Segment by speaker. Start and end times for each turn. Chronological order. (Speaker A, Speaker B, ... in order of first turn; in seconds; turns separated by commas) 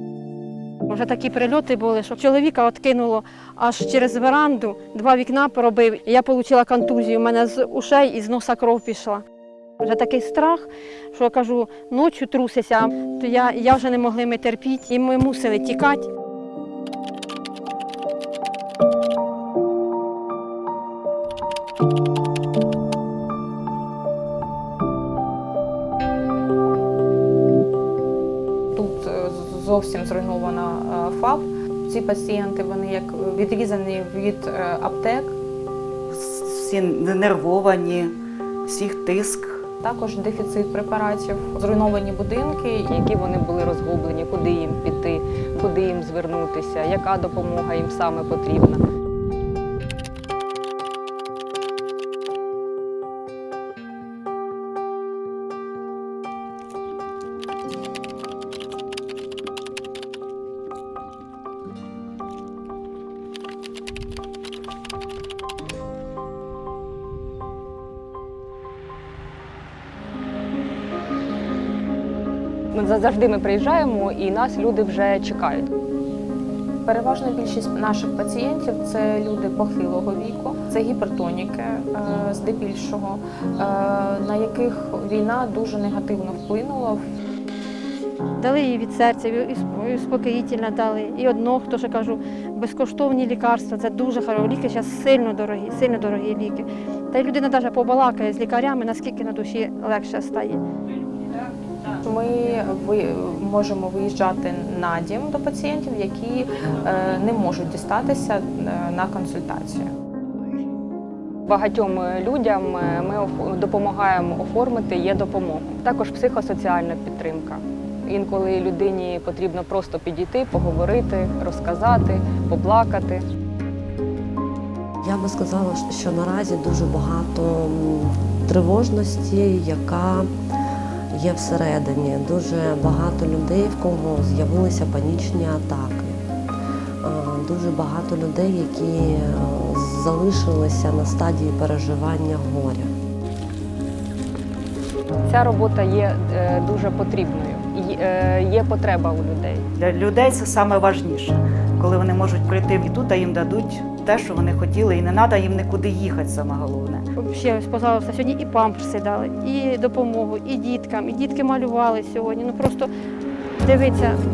Speaker A: 0.9-9.2, Speaker A: 9.8-16.1, Speaker B: 28.7-35.4, Speaker C: 36.1-39.7, Speaker B: 39.8-42.9, Speaker D: 42.9-48.8, Speaker D: 72.7-75.7, Speaker B: 76.8-87.0, Speaker A: 88.4-100.6, Speaker B: 102.0-109.9, Speaker D: 111.5-123.2, Speaker E: 125.0-130.3, Speaker E: 131.1-136.2, Speaker E: 137.0-142.9, Speaker D: 145.3-149.7, Speaker C: 149.8-157.1, Speaker A: 157.2-162.9, Speaker A: 163.6-164.2